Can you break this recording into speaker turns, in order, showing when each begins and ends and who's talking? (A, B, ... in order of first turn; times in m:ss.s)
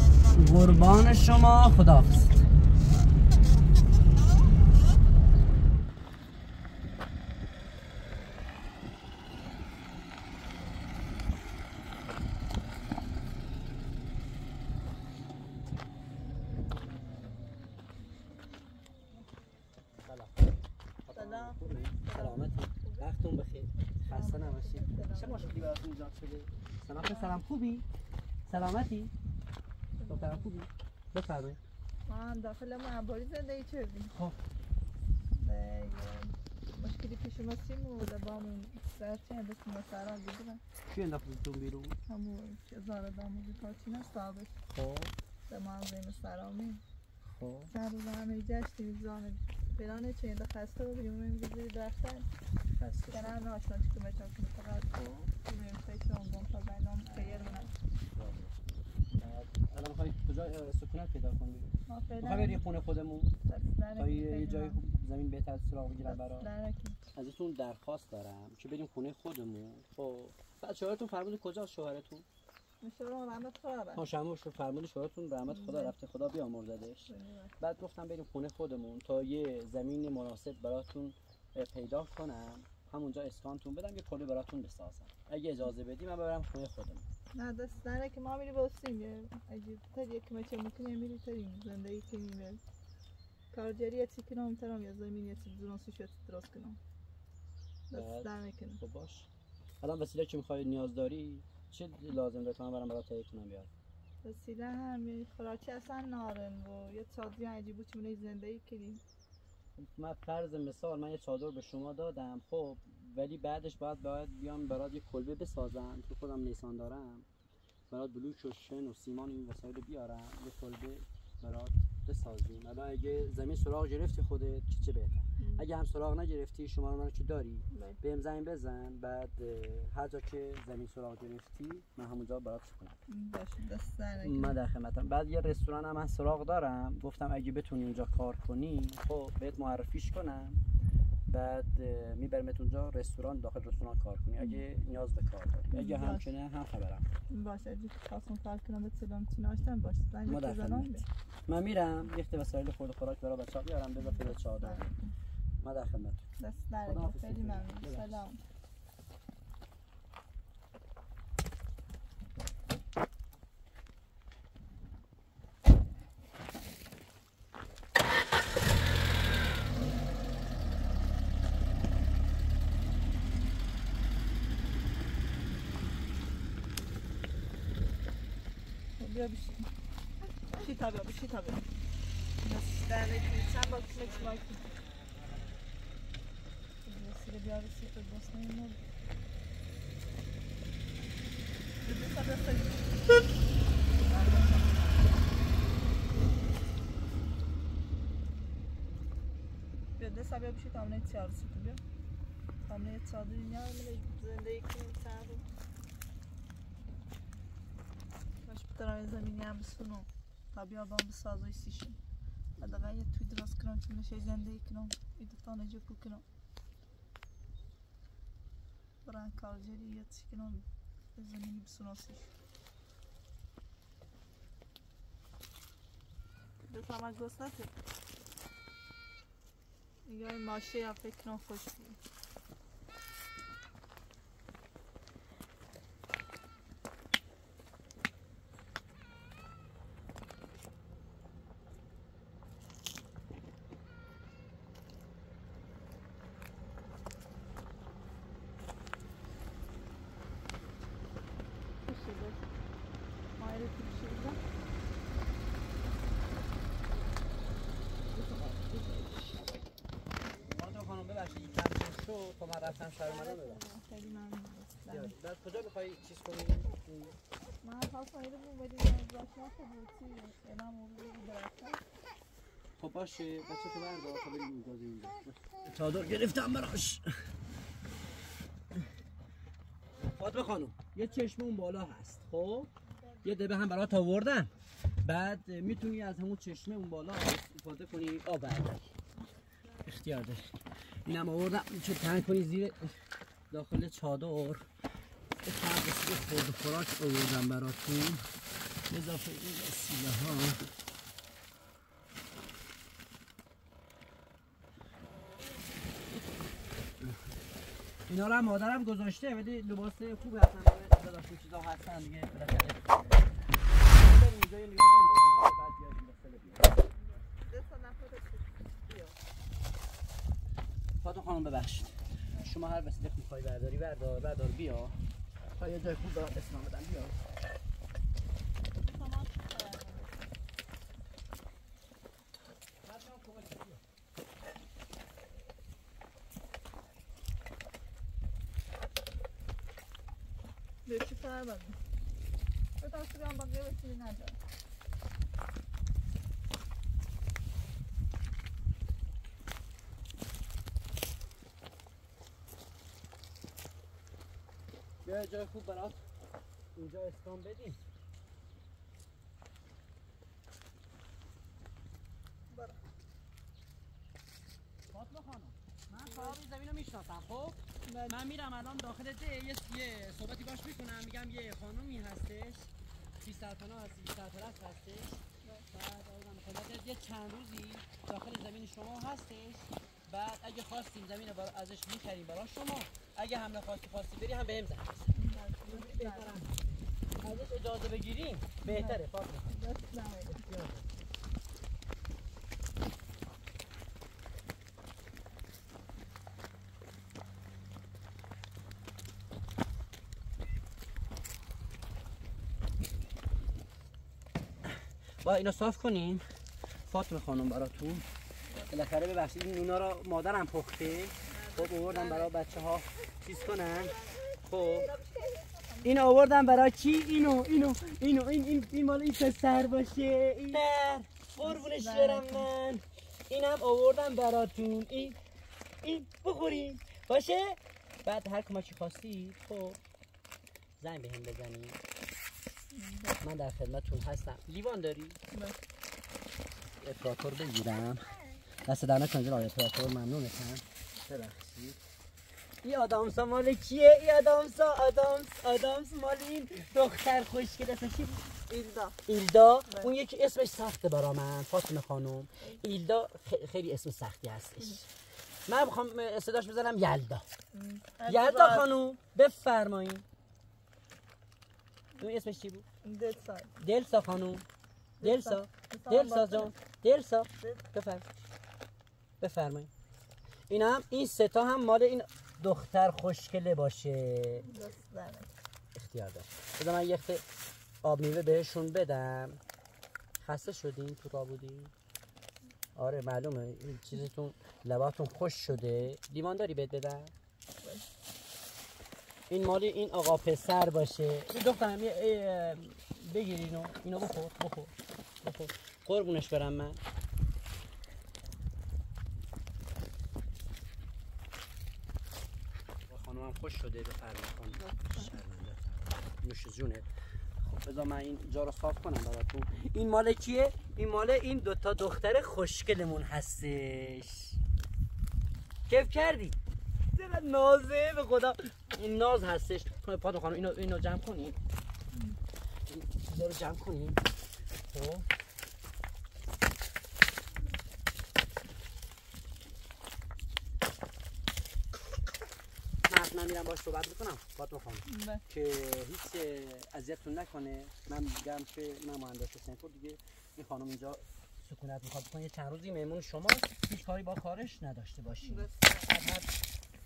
0:00.3-0:02.4 A
0:20.0-0:20.5 A
0:21.0-0:27.8 A
0:21.1-0:23.1 B
0:24.0-0:25.6 B
0:27.1-0:27.4 B
0:28.5-0:29.1 A
0:30.0-0:30.5 B
0:30.1-0:31.6 A
0:32.0-0:34.1 B
0:35.3-0:40.6 B
0:40.9-0:42.0 A
0:42.1-0:44.5 B
0:44.7-0:45.1 A
0:45.5-0:46.8 B
0:47.2-0:47.7 A
0:47.7-0:52.3 B
0:52.7-0:53.4 A
0:53.1-0:57.7 B
0:54.9-0:55.3 A
0:57.1-1:03.3 A
1:01.9-1:02.6 B
1:03.5-1:04.8 B
1:03.9-1:06.5 A
1:06.1-1:07.0 B
1:07.1-1:12.2 A
1:12.8-1:14.0 B
1:13.9-1:27.0 A
1:15.5-1:15.9 B
1:17.1-1:17.5 B
1:27.3-1:32.6 B
1:33.5-1:36.8 B
1:37.9-1:38.8 B
1:37.9-1:38.3 A
1:38.8-1:39.3 A
1:39.8-1:43.7 A
1:44.2-1:49.0 B
1:49.8-1:57.3 A
1:57.9-2:13.0 A
2:05.4-2:05.6 B
2:07.7-2:08.0 B
2:13.1-2:14.5 B
2:14.2-2:20.6 A
2:21.3-2:27.1 A
2:25.7-2:26.2 B
2:27.3-2:31.0 B
2:30.2-2:34.8 A
2:34.0-2:35.1 B
2:35.6-2:36.3 A
2:36.4-2:38.4 B
2:36.8-2:38.2 A
2:59.0-2:59.7 B
3:00.6-3:01.6 B
3:02.4-3:04.7 B
3:06.8-3:08.8 B
3:11.8-3:13.2 B
3:14.0-3:15.2 B
3:20.0-3:21.8 B
3:22.6-3:25.4 B
3:28.4-3:32.0 B
3:32.6-3:36.2 B
3:39.0-3:42.3 B
3:46.7-3:47.7 B
3:50.0-3:52.0 B
4:11.8-4:12.4 B
4:13.4-4:14.4 B
4:18.1-4:19.4 B
4:20.5-4:23.6 A
4:23.0-4:25.1 B
4:24.9-4:27.2 A
4:27.6-4:31.8 B
4:32.8-4:37.1 A
4:40.0-4:42.7 A
4:42.9-4:43.3 B
4:43.2-4:44.5 A
4:45.0-4:48.9 A
4:49.8-4:53.0 A
4:53.5-4:54.7 A
4:55.4-4:58.2 A
4:58.9-5:00.7 A
5:08.1-5:13.3 A
5:13.8-5:16.8 A
5:16.9-5:19.2 B
5:21.0-5:25.0 A
5:25.6-5:27.2 A
5:28.8-5:30.1 B
5:32.8-5:33.8 A
5:40.8-5:41.8 B
5:42.8-5:44.4 B
5:55.0-5:56.0 A
5:56.7-5:57.8 A
6:02.5-6:02.8 B
6:04.9-6:25.1 A
6:06.0-6:06.4 B
6:07.8-6:08.2 B
6:25.1-6:26.3 B
6:25.6-6:26.6 A
6:27.2-6:29.6 A
6:28.6-6:30.4 B
6:30.2-6:30.9 A
6:44.6-6:46.2 A
6:46.9-6:48.0 A
6:48.7-6:54.9 A
6:51.3-6:52.3 B
6:53.5-6:56.1 B
6:55.8-7:05.2 A
7:01.4-7:02.5 B
7:05.8-7:09.8 A
7:10.8-7:11.8 A
7:12.7-7:13.2 B
7:13.2-7:15.2 A
7:15.3-7:15.6 B
7:16.8-7:18.1 A
7:18.6-7:21.8 A
7:22.6-7:28.2 A
7:28.5-7:29.0 B
7:29.1-7:34.9 A
7:35.5-7:37.3 A
7:37.5-7:38.7 B
7:38.0-7:40.0 A
7:42.0-7:42.6 A
7:42.8-7:43.5 B
7:43.6-7:44.4 A
7:45.0-7:46.5 B
7:45.0-7:48.1 A
7:49.2-7:49.7 A
7:50.5-7:54.4 A
7:54.4-7:55.3 B
7:55.7-7:57.2 A
7:57.8-7:59.4 A
8:00.2-8:01.7 A
8:02.8-8:07.1 A
8:09.3-8:16.8 A
8:22.9-8:26.9 A
8:24.5-8:25.1 B
8:27.4-8:34.4 A
8:35.7-8:36.4 A
8:36.9-8:41.4 A
8:41.9-8:42.2 B
8:42.7-8:44.0 A
8:44.7-8:45.1 A
8:52.8-9:06.4 A
8:54.8-8:55.2 B
9:05.2-9:05.9 B